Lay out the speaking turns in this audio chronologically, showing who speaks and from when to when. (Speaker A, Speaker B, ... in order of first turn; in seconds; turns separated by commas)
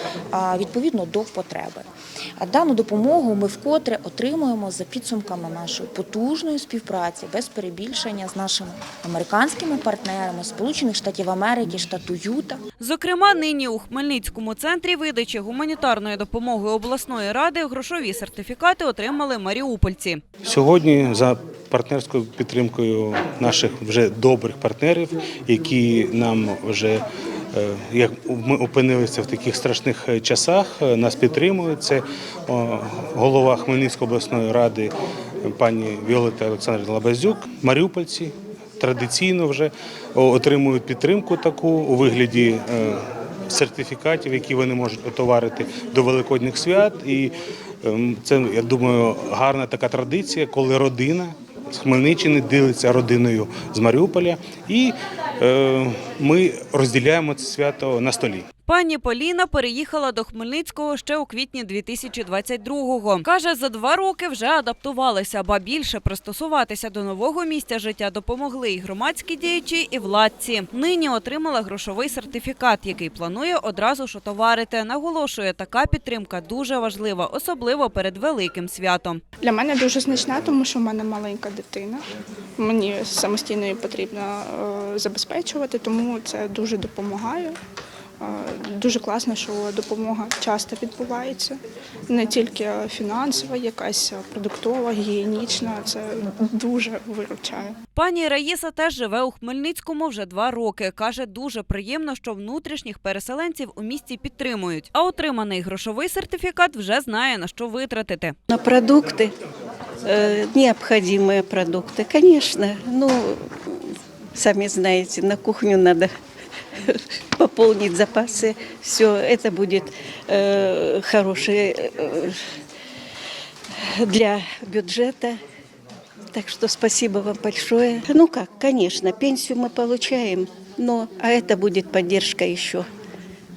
Speaker A: 0.3-1.9, Speaker A: 2.4-12.6, Speaker B: 12.8-20.2, Speaker C: 20.4-58.5, Speaker B: 58.6-79.2, Speaker D: 79.4-82.0, Speaker D: 82.6-87.5, Speaker D: 88.2-91.5, Speaker D: 92.1-97.7, Speaker B: 97.9-108.3, Speaker E: 108.5-109.3, Speaker E: 110.0-116.1, Speaker E: 116.8-122.3, Speaker E: 123.8-125.4, Speaker E: 126.3-132.9